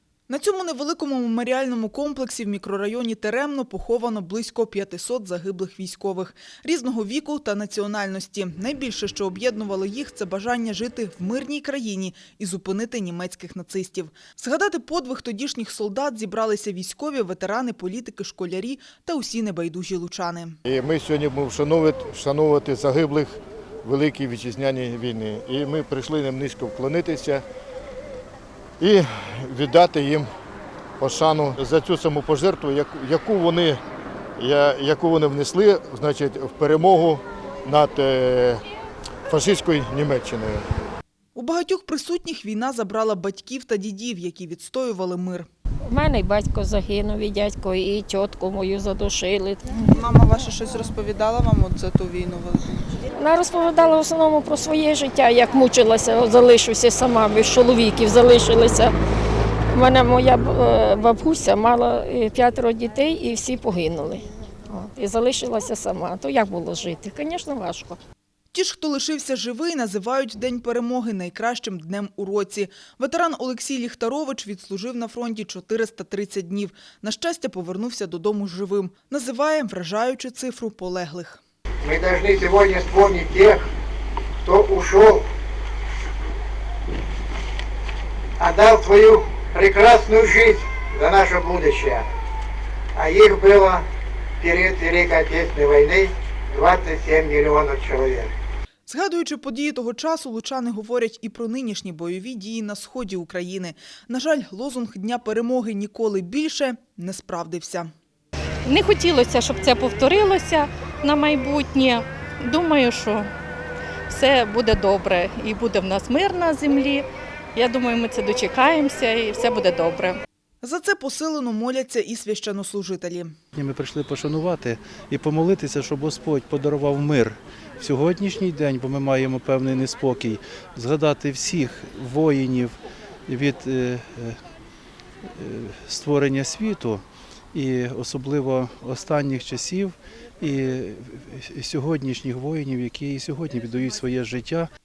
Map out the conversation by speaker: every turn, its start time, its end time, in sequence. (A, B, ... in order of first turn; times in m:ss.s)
0:00.3-0:20.6 A
0:20.6-0:27.4 B
0:28.8-0:30.3 B
0:31.0-0:33.8 B
0:34.4-0:38.6 B
0:39.3-0:40.7 B
0:41.4-0:45.5 A
0:45.9-0:49.8 C
0:49.8-0:52.9 A
0:53.2-0:58.9 C
0:59.7-1:08.0 C
1:08.5-1:21.4 A
1:21.8-1:23.7 D
1:24.4-1:25.2 D
1:28.4-1:32.1 D
1:33.0-1:33.8 D
1:34.4-1:38.3 D
1:38.9-1:47.9 A
1:48.7-1:53.3 E
1:54.1-2:00.2 E
2:00.6-2:03.3 A
2:03.5-2:14.4 F
2:15.4-2:24.7 F